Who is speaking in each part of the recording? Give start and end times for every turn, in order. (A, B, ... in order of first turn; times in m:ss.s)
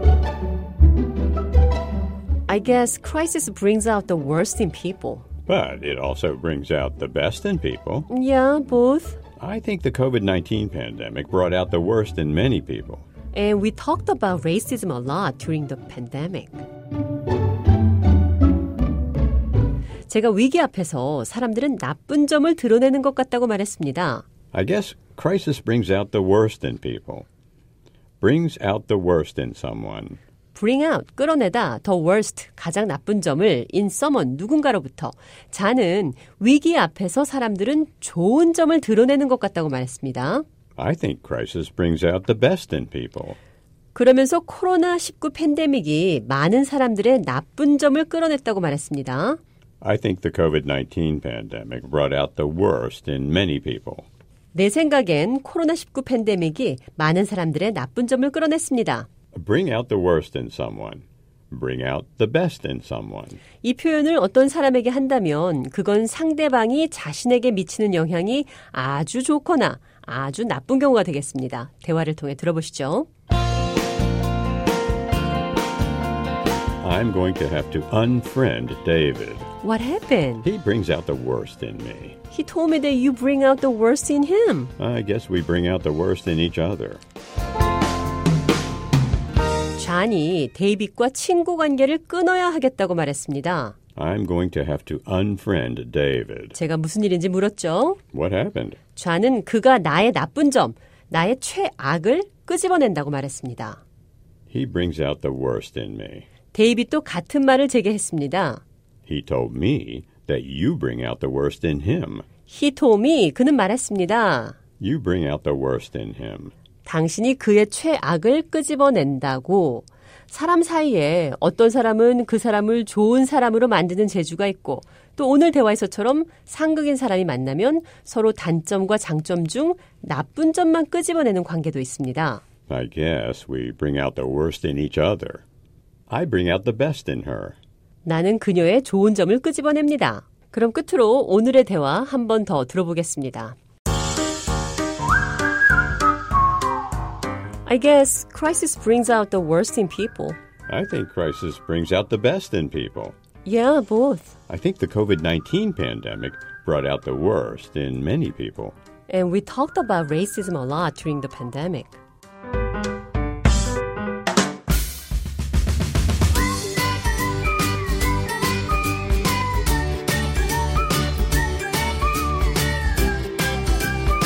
0:02.5-0:05.3 A
0:05.5-0:08.1 B
0:08.1-0:09.2 A
0:09.4-0:13.0 B
0:13.3-0:16.6 A
0:20.1-0:24.2 A
0:24.5-0:27.3 B
0:28.2-0:30.2 B
0:30.6-0:40.4 A
0:40.8-0:43.4 B
0:44.0-0:49.4 A
0:49.8-0:54.1 B
0:54.5-0:59.1 A
0:59.3-1:03.4 B
1:03.6-1:13.1 A
1:16.8-1:19.5 B
1:19.6-1:20.5 A
1:20.4-1:22.2 B
1:22.3-1:24.7 A
1:24.8-1:27.0 B
1:29.8-1:33.8 A
1:34.0-1:36.6 B
1:36.5-1:38.0 A
1:38.1-1:38.8 B
1:39.0-1:43.8 A
1:44.5-1:46.3 B
1:46.5-1:48.6 A
1:49.1-1:52.3 B
1:52.5-1:54.6 A
1:54.8-1:56.5 B
1:56.9-2:12.4 A
2:12.7-2:15.4 B
2:16.1-2:17.6 B
2:18.0-2:23.6 A
2:27.7-2:30.4 A
2:30.7-2:33.2 B
2:33.4-2:34.3 A
2:34.5-2:38.8 B
2:39.1-2:42.0 A